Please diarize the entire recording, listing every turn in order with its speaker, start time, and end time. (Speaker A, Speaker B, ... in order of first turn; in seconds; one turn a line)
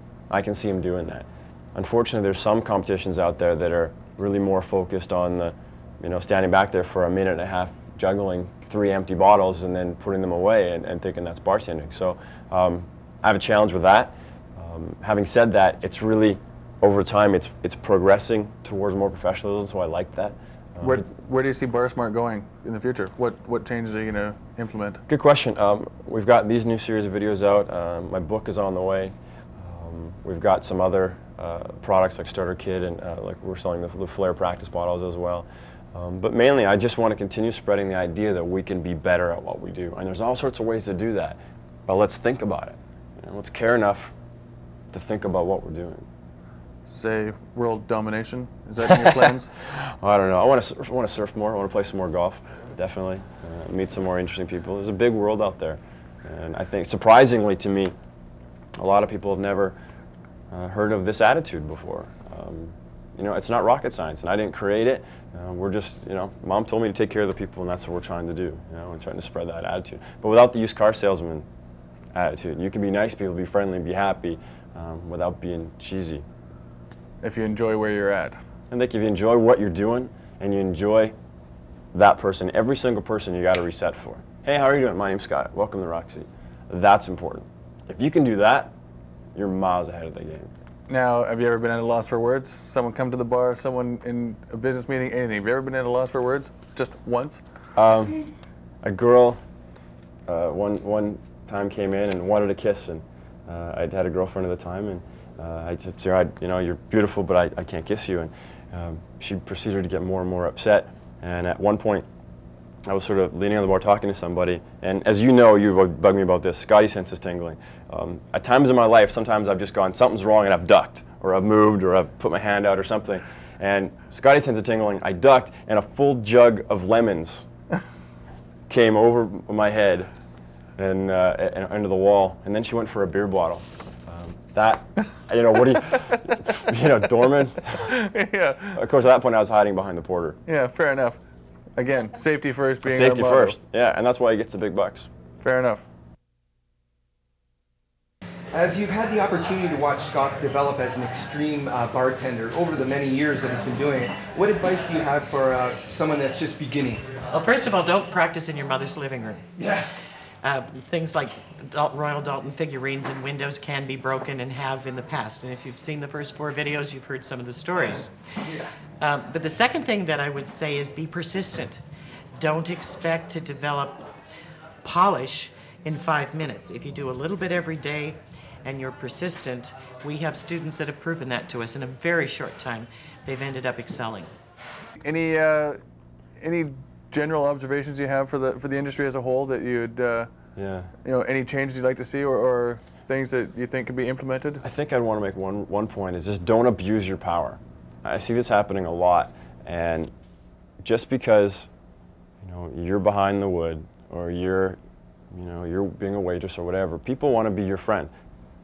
Speaker A: 0.3-21.1
Speaker B: 20.8-25.0
Speaker A: 25.1-44.1
Speaker A: 44.9-46.1
Speaker B: 46.9-49.5
Speaker A: 48.9-58.0
Speaker A: 58.8-59.8
Speaker A: 60.5-71.5
Speaker A: 72.1-76.2
Speaker B: 77.2-78.4
Speaker A: 78.7-81.2
Speaker A: 81.9-88.7
Speaker A: 89.3-90.5
Speaker B: 90.9-97.4
Speaker A: 97.8-98.2
Speaker A: 98.8-99.4
Speaker A: 100.3-112.1
Speaker A: 112.9-127.5
Speaker A: 128.7-130.1
Speaker A: 130.8-137.9
Speaker B: 137.9-138.8
Speaker A: 138.7-140.4
Speaker B: 140.5-141.2
Speaker B: 141.8-143.6
Speaker A: 142.8-145.1
Speaker B: 145.4-145.8
Speaker C: 148.5-157.1
Speaker D: 157.3-159.4
Speaker D: 160.4-168.1
Speaker D: 169.0-171.8
Speaker D: 172.4-174.1
Speaker D: 174.8-184.3
Speaker B: 185.0-185.8
Speaker B: 186.4-190.3
Speaker A: 190.6-190.9
Speaker B: 191.0-194.6
Speaker A: 194.6-200.1
Speaker A: 200.8-201.7
Speaker A: 202.4-204.8
Speaker A: 205.3-208.1